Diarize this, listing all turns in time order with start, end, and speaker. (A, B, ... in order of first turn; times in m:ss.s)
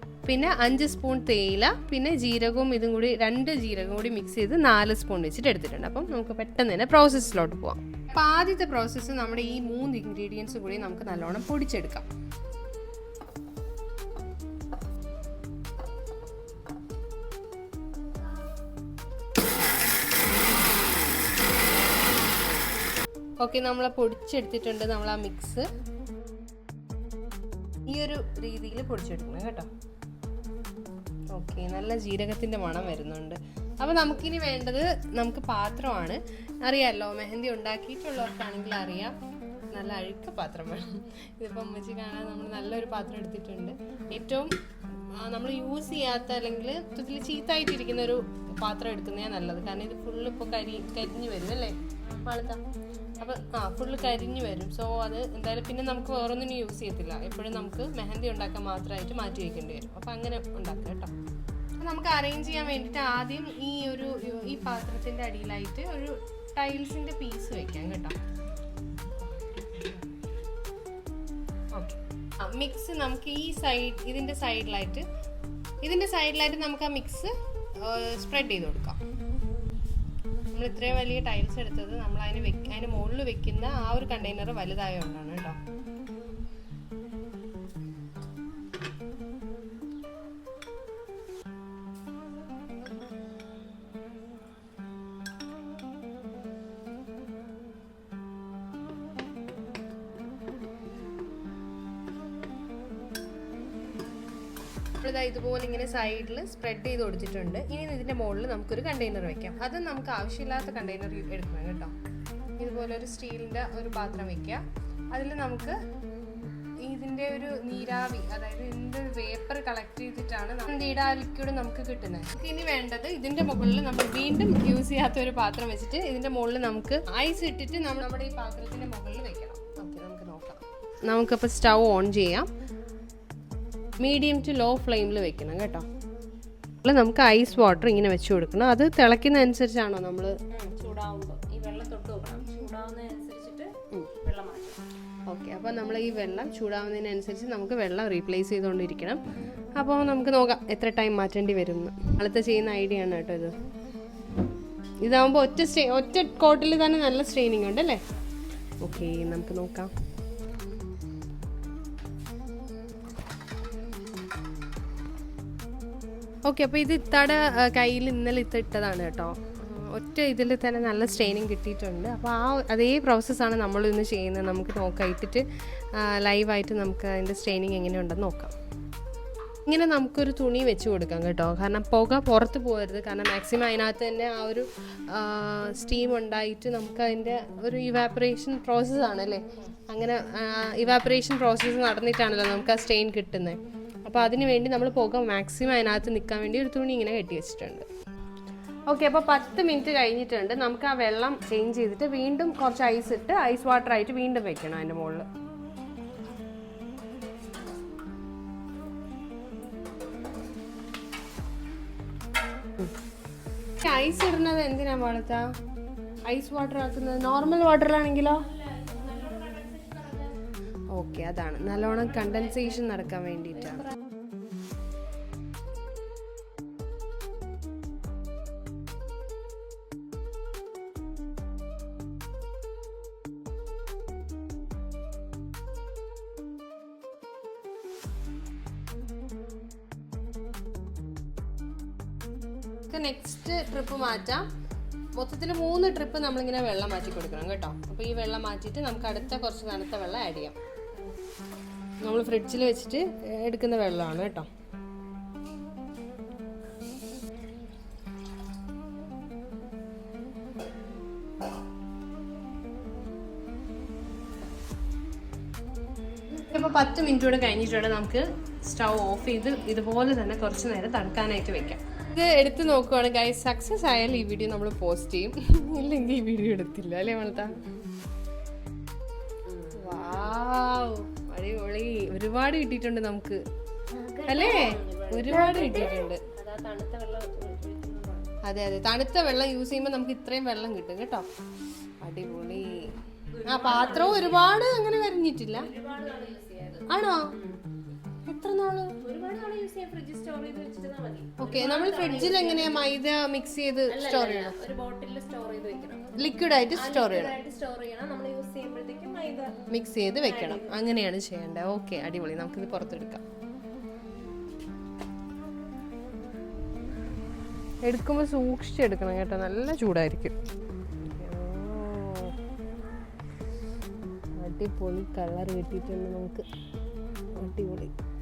0:00.2-0:12.1 A
0:23.4-0:25.7 A
0:27.9-0:29.7 A
0:31.3-0:39.2 A
0:39.7-0:52.6 A
0:52.1-0:52.4 B
0:53.1-0:53.5 B
0:53.2-1:01.1 A
1:01.8-1:08.2 A
1:09.6-1:09.9 A
1:11.7-1:15.0 A
1:15.8-1:19.0 A
1:20.5-1:25.6 A
1:45.0-1:51.9 A
1:52.6-1:55.8 A
1:56.8-2:12.5 A
2:14.0-2:15.8 A
2:16.8-2:20.3 A
2:20.5-2:24.8 B
2:25.3-2:29.2 A
2:29.8-2:33.5 A
2:35.0-2:38.0 A
2:38.8-2:39.9 A
2:46.4-2:58.5 A
2:59.7-3:17.8 A
3:18.9-3:25.3 A
3:33.8-3:35.5 A
3:36.3-3:38.5 A
3:38.4-3:40.3 B
3:40.9-3:43.9 A
3:41.8-3:42.7 B
4:02.9-4:04.4 A
4:05.2-4:10.6 A
4:12.0-4:14.5 A
4:26.4-4:37.6 A
4:39.7-4:43.4 A
4:43.9-4:48.3 B
4:44.2-4:46.2 A
4:48.4-4:51.3 A
4:52.0-4:52.9 A
4:53.3-4:54.5 B
4:53.4-4:55.7 A
4:55.5-4:57.6 B
4:56.9-4:57.3 A
4:58.2-4:59.0 A
4:59.0-5:02.9 B
5:01.4-5:04.6 A
5:03.9-5:06.0 B
5:06.2-5:07.3 A
5:06.7-5:09.5 B
5:09.7-5:13.2 A
5:10.2-5:10.8 B
5:17.8-5:20.3 A
5:21.0-5:22.4 A
5:24.4-5:26.4 A
5:27.3-5:27.9 A